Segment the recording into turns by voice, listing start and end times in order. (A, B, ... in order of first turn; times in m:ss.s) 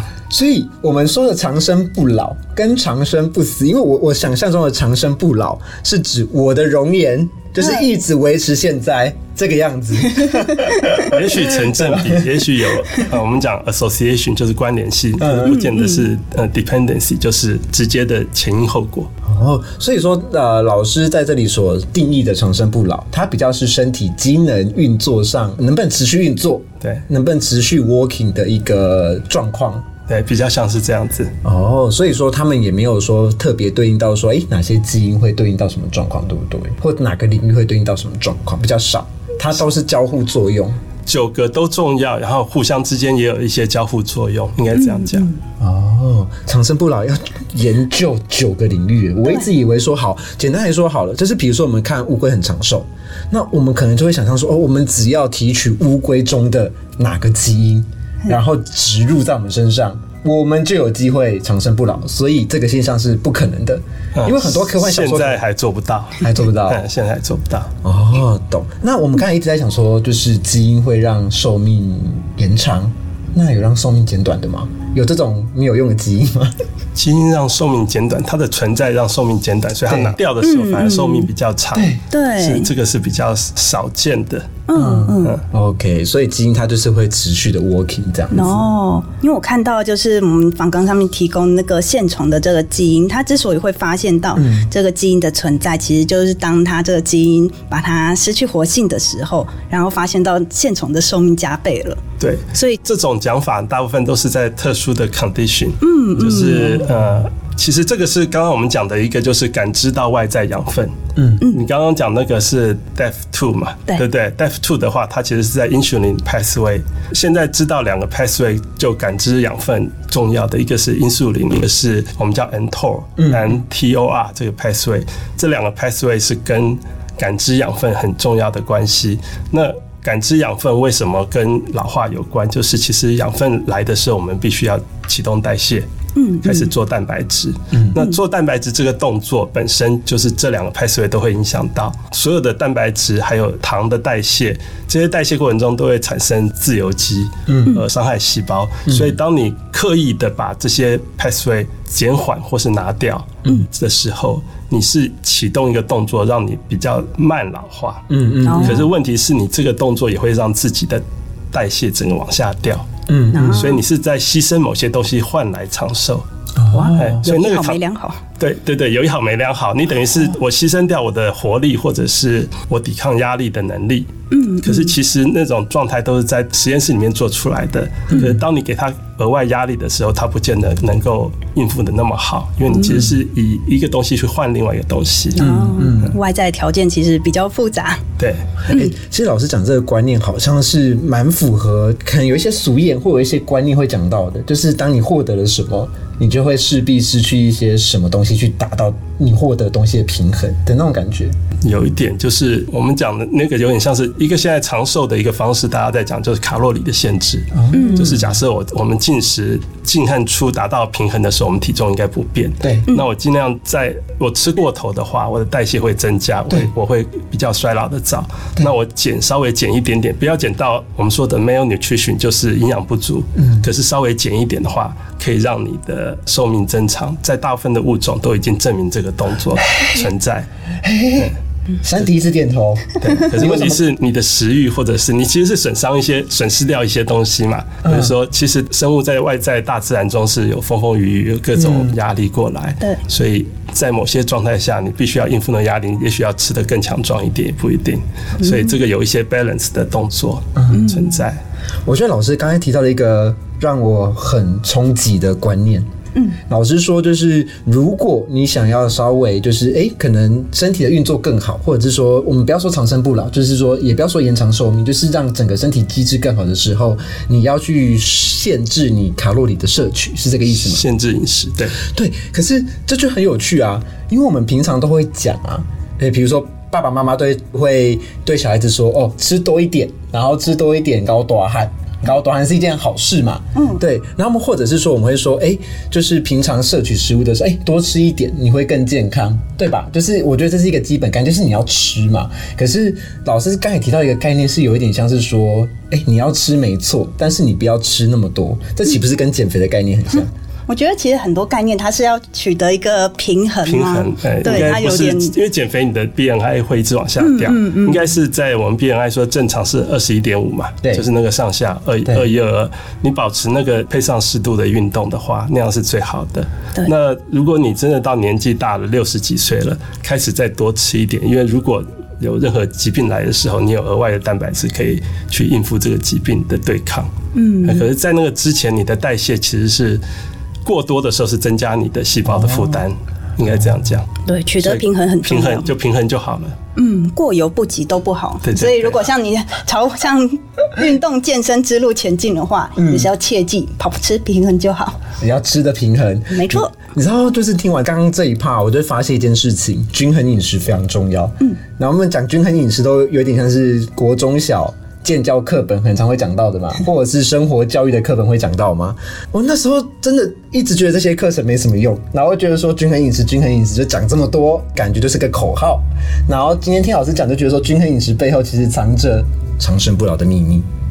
0:00.3-0:12.3 A
0:11.0-0:19.1 B
0:15.2-0:15.7 A
0:15.5-0:16.0 C
0:19.2-0:29.8 A
0:30.1-0:31.3 B
0:31.4-0:40.8 A
0:41.0-0:45.3 B
0:44.8-0:45.4 C
0:45.6-1:05.4 A
1:04.2-1:07.7 B
1:06.2-1:06.8 A
1:07.8-1:16.6 A
1:17.0-1:24.6 B
1:19.9-1:20.1 A
1:20.4-1:21.3 C
1:21.7-1:22.0 A
1:22.1-1:22.7 C
1:24.7-1:25.4 C
1:24.8-1:28.6 A
1:28.3-1:42.0 C
1:34.4-1:34.7 A
1:42.2-1:51.0 B
1:42.5-1:42.8 C
1:45.8-1:46.8 C
1:51.2-1:51.4 A
1:51.5-2:15.9 B
2:03.2-2:03.6 A
2:16.1-2:16.7 C
2:16.4-2:42.9 B
2:17.7-2:18.0 A
2:27.5-2:27.8 A
2:28.9-2:29.2 A
2:38.1-2:38.9 A
2:38.4-2:38.8 C
2:43.1-2:43.7 A
2:43.3-2:43.8 C
2:43.5-2:46.2 B
2:46.6-2:47.2 A
2:46.7-2:48.2 C
2:46.9-2:47.8 B
2:48.4-2:54.1 B
2:54.3-2:54.9 C
2:54.6-3:05.4 B
2:58.1-2:58.4 A
3:02.8-3:03.2 A
3:05.4-3:08.0 C
3:05.4-3:06.1 A
3:08.2-3:08.4 B
3:08.6-3:21.3 A
3:21.6-3:50.5 B
3:27.5-3:28.4 A
3:27.7-3:28.1 C
3:43.4-3:43.6 A
3:49.7-3:50.1 A
3:50.8-3:53.8 A
3:53.0-4:11.4 B
3:57.8-3:58.1 A
4:01.5-4:01.9 A
4:08.4-4:08.7 C
4:10.6-4:10.8 A
4:10.7-4:11.2 C
4:11.8-4:15.9 A
4:16.5-4:30.8 A
4:30.5-4:31.8 B
4:31.8-5:00.3 A
4:43.5-4:43.8 C
5:00.7-5:05.3 C
5:03.6-5:27.1 B
5:07.2-5:08.0 C
5:27.3-5:27.8 C
5:27.6-5:30.0 B
5:30.6-5:34.1 B
5:32.3-5:32.8 A
5:34.2-5:35.7 C
5:34.6-5:36.6 B
5:36.8-5:45.0 C
5:38.4-5:39.1 B
5:42.8-5:43.1 A
5:45.2-6:10.6 A
5:46.3-5:46.7 C